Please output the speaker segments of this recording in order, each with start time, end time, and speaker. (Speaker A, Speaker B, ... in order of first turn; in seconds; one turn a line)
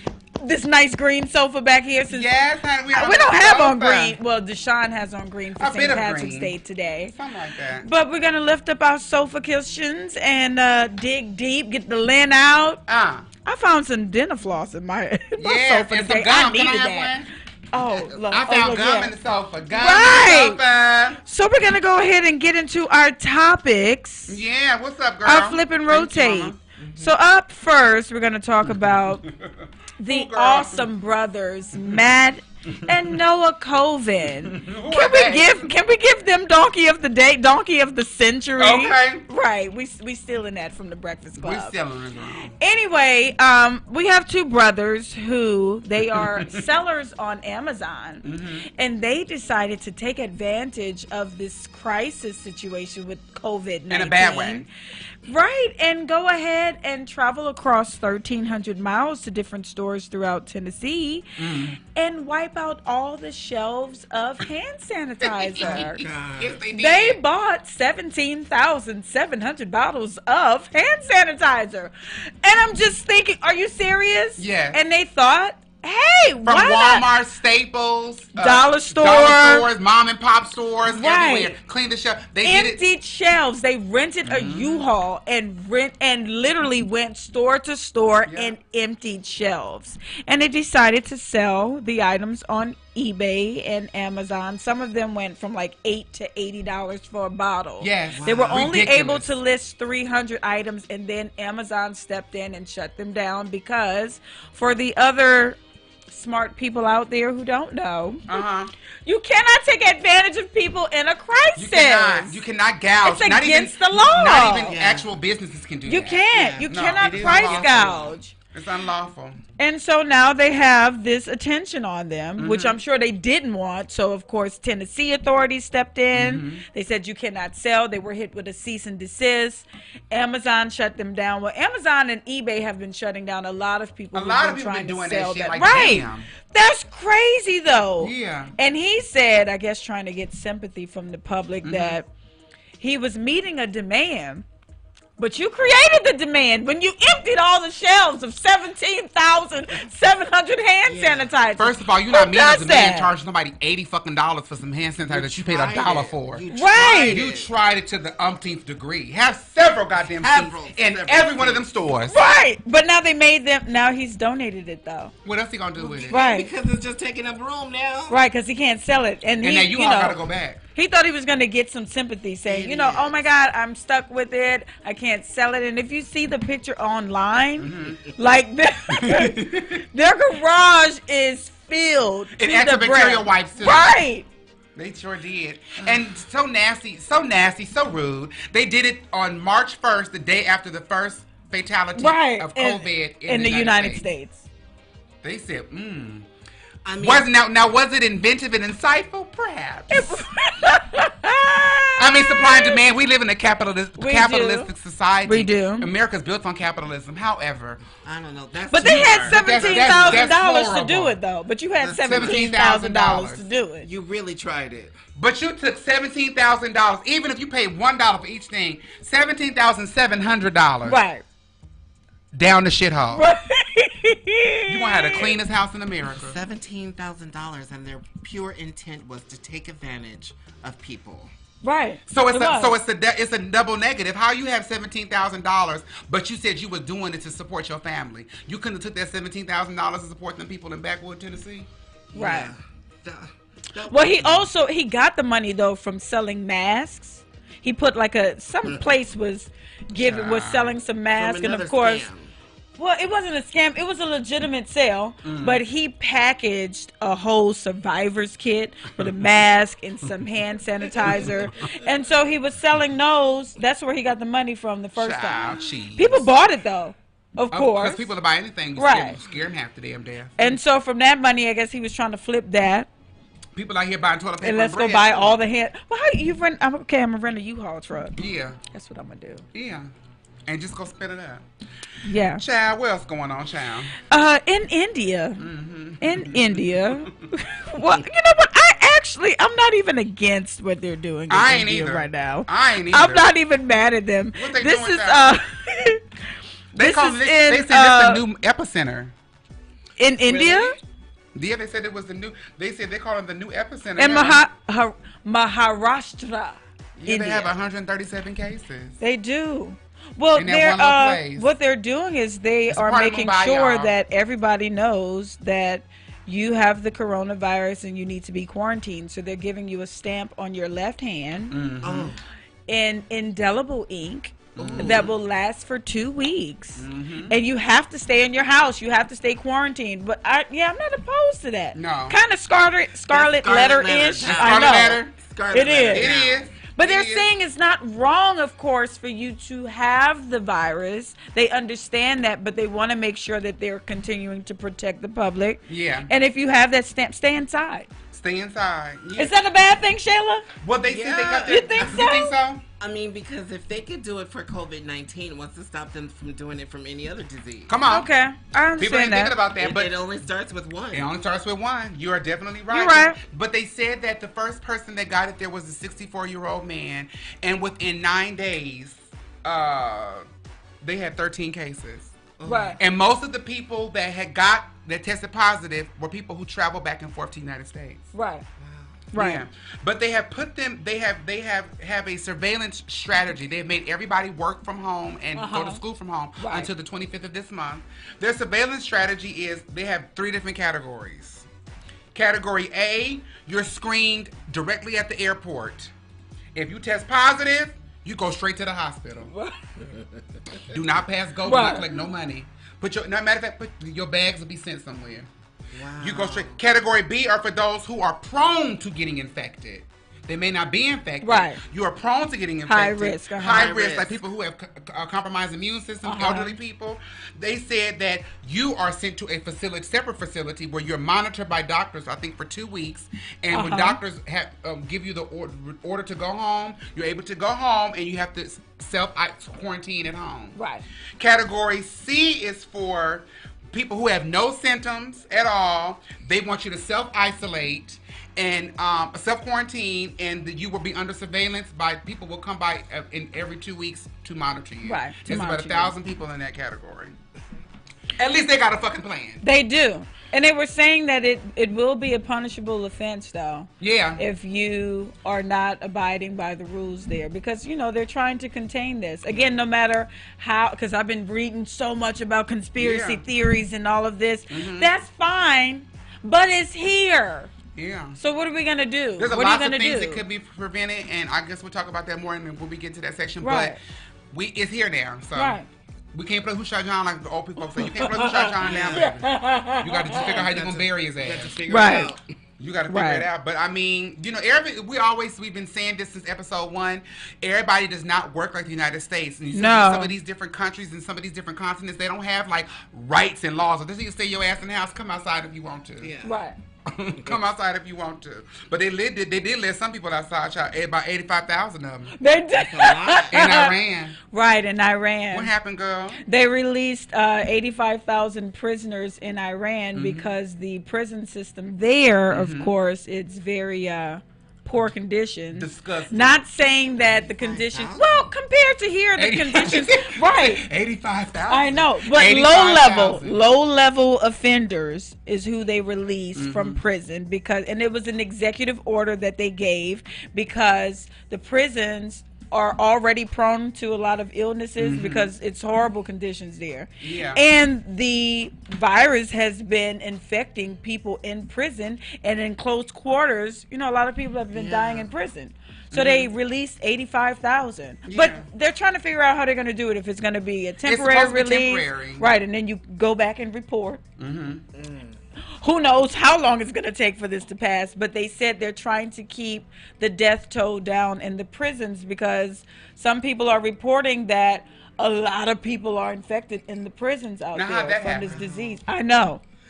Speaker A: 0.4-2.3
Speaker B: 2.1-4.2
Speaker A: 2.9-7.1
Speaker B: 5.6-6.5
Speaker B: 7.1-7.8
Speaker A: 7.8-12.8
Speaker B: 12.9-13.3
Speaker A: 13.4-17.1
Speaker B: 15.4-21.2
Speaker A: 17.7-19.1
Speaker A: 19.7-20.6
Speaker A: 21.2-24.4
Speaker B: 24.3-26.6
Speaker A: 25.2-29.2
Speaker C: 26.8-27.1
Speaker B: 28.6-30.9
Speaker A: 30.0-41.7
Speaker B: 31.8-32.0
Speaker B: 32.7-33.1
Speaker B: 34.4-35.7
Speaker B: 38.6-39.2
Speaker B: 41.4-42.5
Speaker A: 42.5-54.7
Speaker B: 46.1-46.6
Speaker B: 48.2-48.7
Speaker B: 53.9-54.6
Speaker A: 55.2-66.0
Speaker B: 61.4-61.8
Speaker B: 65.2-67.2
Speaker C: 65.6-66.6
Speaker A: 66.7-77.1
Speaker B: 74.4-74.8
Speaker B: 76.4-82.8
Speaker A: 78.3-79.7
Speaker A: 80.8-81.6
Speaker A: 82.4-105.6
Speaker B: 84.2-84.9
Speaker B: 88.3-88.5
Speaker B: 97.8-99.3
Speaker C: 98.1-98.7
Speaker A: 106.1-108.4
Speaker B: 108.3-108.7
Speaker A: 109.0-112.4
Speaker B: 111.5-119.4
Speaker A: 113.0-114.7
Speaker C: 114.7-115.1
Speaker A: 115.8-118.3
Speaker C: 116.3-118.2
Speaker A: 119.6-142.1
Speaker B: 122.4-122.8
Speaker B: 126.1-126.6
Speaker B: 134.1-136.3
Speaker B: 138.0-138.5
Speaker B: 141.6-142.0
Speaker A: 142.8-144.4
Speaker A: 145.2-153.1
Speaker C: 150.8-151.3
Speaker B: 151.6-156.4
Speaker C: 155.1-157.5
Speaker A: 156.5-157.2
Speaker B: 157.0-162.2
Speaker C: 160.1-161.7
Speaker A: 162.1-165.1
Speaker B: 165.2-166.2
Speaker C: 165.8-168.2
Speaker A: 166.1-166.5
Speaker A: 168.1-170.2
Speaker B: 169.4-170.6
Speaker A: 170.7-184.2
Speaker C: 172.5-173.3
Speaker B: 177.6-178.0
Speaker C: 177.8-178.2
Speaker B: 178.9-179.8
Speaker B: 182.3-183.9
Speaker B: 184.8-194.0
Speaker A: 192.0-194.4
Speaker B: 195.2-196.2
Speaker C: 196.8-197.3
Speaker B: 197.0-200.3
Speaker A: 199.9-202.8
Speaker B: 202.0-207.8
Speaker A: 204.0-204.7
Speaker A: 205.2-205.9
Speaker C: 208.0-210.3
Speaker A: 208.7-213.9
Speaker B: 209.3-211.2
Speaker C: 211.8-212.5
Speaker B: 212.0-213.4
Speaker C: 213.8-214.9
Speaker B: 215.2-221.0
Speaker A: 220.8-221.2
Speaker B: 222.3-223.3
Speaker A: 223.1-225.4
Speaker B: 224.7-226.4
Speaker C: 226.1-231.3
Speaker A: 231.6-232.7
Speaker B: 232.1-241.7
Speaker C: 242.1-244.5
Speaker A: 242.1-242.5
Speaker A: 243.9-252.1
Speaker B: 249.9-250.7
Speaker C: 251.1-252.3
Speaker A: 252.8-268.1
Speaker B: 255.2-255.6
Speaker B: 259.0-259.2
Speaker C: 260.9-261.8
Speaker B: 265.0-266.3
Speaker B: 267.5-270.5
Speaker A: 268.8-269.2
Speaker A: 270.4-272.9
Speaker B: 273.6-275.4
Speaker A: 274.4-278.1
Speaker B: 278.1-278.6
Speaker A: 278.7-279.4
Speaker B: 279.5-279.9
Speaker B: 280.5-281.4
Speaker A: 282.0-282.4
Speaker B: 282.3-284.0
Speaker A: 284.0-285.4
Speaker B: 285.4-287.1
Speaker A: 286.0-296.1
Speaker B: 291.3-293.3
Speaker B: 294.3-295.4
Speaker B: 296.7-299.1
Speaker A: 296.8-298.2
Speaker A: 300.0-300.8
Speaker C: 300.3-300.8
Speaker B: 301.3-304.4
Speaker A: 304.0-307.5
Speaker B: 307.0-309.0
Speaker A: 309.0-321.6
Speaker B: 310.3-311.5
Speaker B: 312.7-313.9
Speaker B: 321.5-322.1
Speaker C: 321.8-322.2
Speaker A: 322.7-336.1
Speaker B: 324.6-325.1
Speaker C: 324.6-325.1
Speaker B: 326.8-327.3
Speaker B: 331.7-332.2
Speaker C: 333.1-336.4
Speaker B: 334.2-335.1
Speaker B: 335.9-337.3
Speaker A: 336.8-347.9
Speaker B: 345.7-346.1
Speaker B: 348.1-349.3
Speaker A: 349.2-350.5
Speaker B: 350.6-352.6
Speaker C: 350.8-352.0
Speaker A: 351.4-352.4
Speaker C: 352.8-357.7
Speaker B: 357.7-358.1
Speaker A: 357.9-359.4
Speaker B: 358.8-360.0
Speaker C: 359.6-361.1
Speaker B: 360.9-370.2
Speaker A: 362.7-363.2
Speaker B: 370.8-372.1
Speaker C: 372.4-372.8
Speaker A: 372.4-372.8
Speaker B: 372.8-378.1
Speaker A: 378.1-378.4
Speaker C: 378.6-379.0
Speaker A: 379.1-379.4
Speaker B: 379.1-391.4
Speaker A: 385.4-385.8
Speaker A: 386.4-386.7
Speaker B: 392.1-395.9
Speaker B: 396.5-399.3
Speaker A: 399.3-399.6
Speaker C: 399.8-400.6
Speaker B: 400.7-405.3
Speaker A: 401.4-401.9
Speaker C: 405.7-406.6
Speaker B: 406.0-430.6
Speaker A: 411.2-411.6
Speaker A: 412.6-413.7
Speaker C: 413.4-414.2
Speaker A: 416.0-416.6
Speaker A: 423.5-424.0
Speaker A: 430.6-430.8
Speaker B: 431.2-447.1
Speaker A: 444.8-445.9
Speaker B: 448.2-449.4
Speaker A: 449.4-467.5
Speaker B: 453.8-454.2
Speaker B: 462.8-463.2
Speaker B: 464.5-464.9
Speaker B: 467.7-468.2
Speaker A: 468.2-470.2
Speaker B: 469.2-473.8
Speaker A: 473.4-473.8
Speaker B: 474.3-475.6
Speaker A: 475.4-475.7
Speaker B: 476.1-481.7
Speaker A: 477.8-480.4
Speaker C: 478.6-479.2
Speaker C: 480.0-482.2
Speaker A: 481.7-482.1
Speaker B: 482.6-496.1
Speaker A: 482.9-483.3
Speaker A: 489.5-490.1
Speaker C: 496.0-496.4
Speaker A: 496.2-496.6
Speaker B: 496.9-502.1
Speaker A: 502.2-503.7
Speaker C: 502.6-503.3
Speaker B: 503.3-504.2
Speaker A: 504.3-505.5
Speaker B: 505.3-506.2
Speaker A: 506.2-520.7
Speaker B: 509.9-510.3
Speaker B: 512.3-512.7
Speaker B: 515.5-516.4
Speaker C: 517.0-518.3
Speaker B: 519.2-523.4
Speaker A: 521.5-554.0
Speaker B: 526.3-526.8
Speaker B: 534.8-535.3
Speaker B: 537.0-537.4
Speaker C: 544.5-545.1
Speaker B: 545.9-546.3
Speaker B: 548.1-548.4
Speaker B: 550.8-552.3
Speaker B: 554.2-554.6
Speaker C: 554.7-555.2
Speaker A: 555.5-569.4
Speaker B: 567.5-568.3
Speaker C: 568.3-568.8